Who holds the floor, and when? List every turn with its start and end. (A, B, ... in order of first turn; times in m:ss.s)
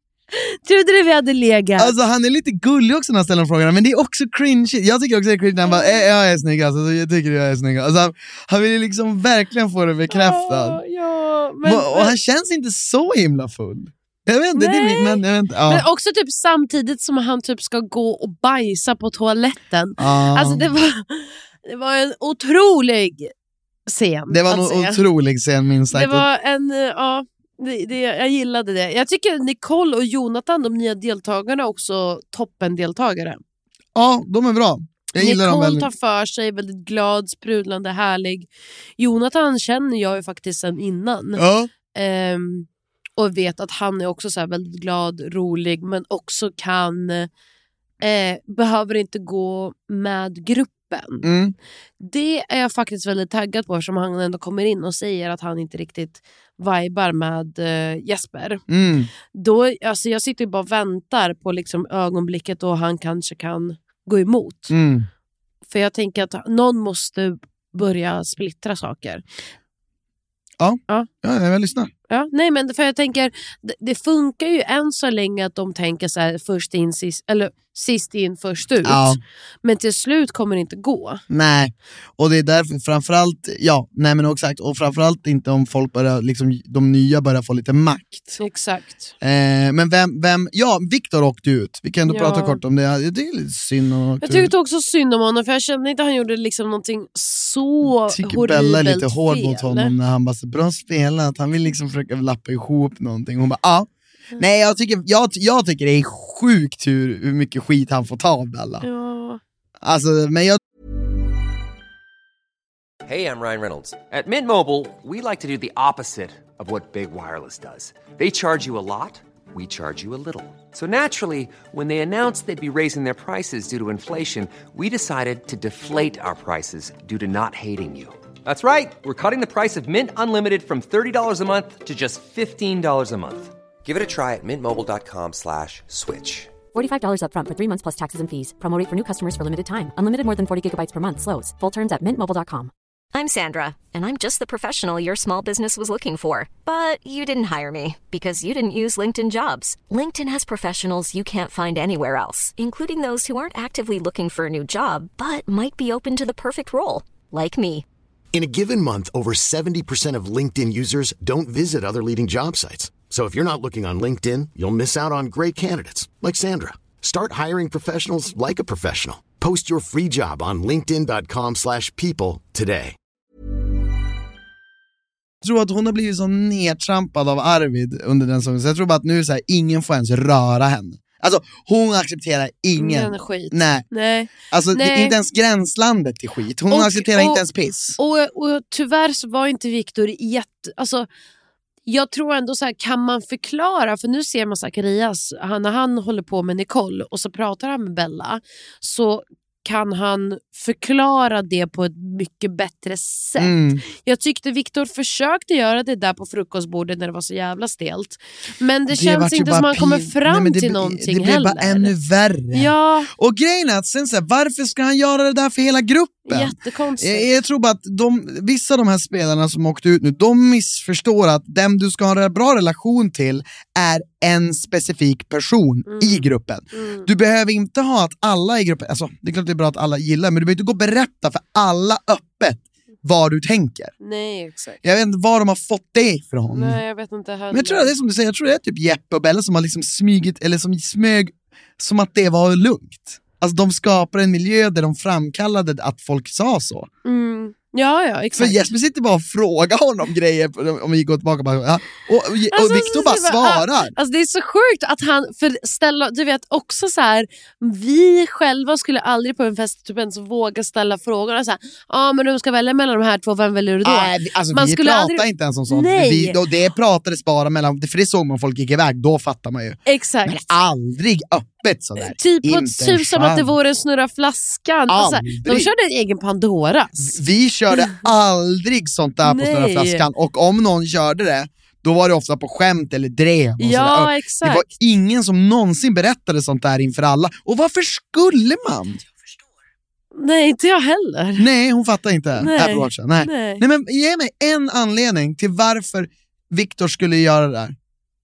0:00.3-0:01.9 A
0:01.8-0:10.8 B
0:05.6-0:06.0 A
0:10.1-0:12.1 A
0:11.6-0:15.8 B
0:14.5-0:23.3 A
0:20.0-0:20.7 B
0:23.9-0:25.0 A
0:24.3-0:26.2 B
0:25.9-0:33.4 A
0:33.9-0:35.9 B
0:35.2-0:47.3 A
0:41.4-0:41.7 B
0:48.0-0:51.2 A
0:51.2-0:51.5 B
0:52.0-0:58.6 A
0:58.7-0:59.1 B
0:59.3-1:04.7 A
1:04.7-1:05.1 B
1:05.7-1:09.2 A
1:10.6-1:11.9 B
1:12.1-1:21.2 A
1:18.8-1:19.2 B
1:21.3-1:28.4 B
1:28.4-1:29.1 A
1:29.2-1:34.5 B
1:32.1-1:32.6 A
1:34.2-1:39.9 A
1:37.8-1:48.8 B
1:48.8-1:49.4 A
1:49.8-1:50.6 B
1:53.0-2:16.5 C
2:16.7-2:22.7 D
2:23.1-2:37.8 E
2:38.3-2:52.9 F
2:55.4-3:03.8 B
3:02.8-3:05.1 A
3:04.5-3:08.0 B
3:06.7-3:07.4 A
3:08.0-3:11.1 A
3:11.9-3:31.9 A
3:23.4-3:23.8 B
3:28.9-3:53.9 B
3:32.5-3:33.1 A
3:36.3-3:37.3 A
3:45.9-3:47.1 A
3:54.0-3:54.8 A
3:54.8-3:56.8 B
3:56.5-3:57.9 A
3:57.5-4:06.9 B
4:07.0-4:08.7 A
4:08.3-4:13.9 B
4:12.5-4:26.4 A
4:23.8-4:33.5 B
4:29.9-4:30.4 A
4:32.0-4:37.2 A
4:34.9-4:35.7 B
4:37.0-4:49.0 B
4:39.2-4:40.1 A
4:43.6-4:44.6 A
4:50.2-4:51.4 A
4:51.4-4:57.7 B
4:52.4-4:53.6 A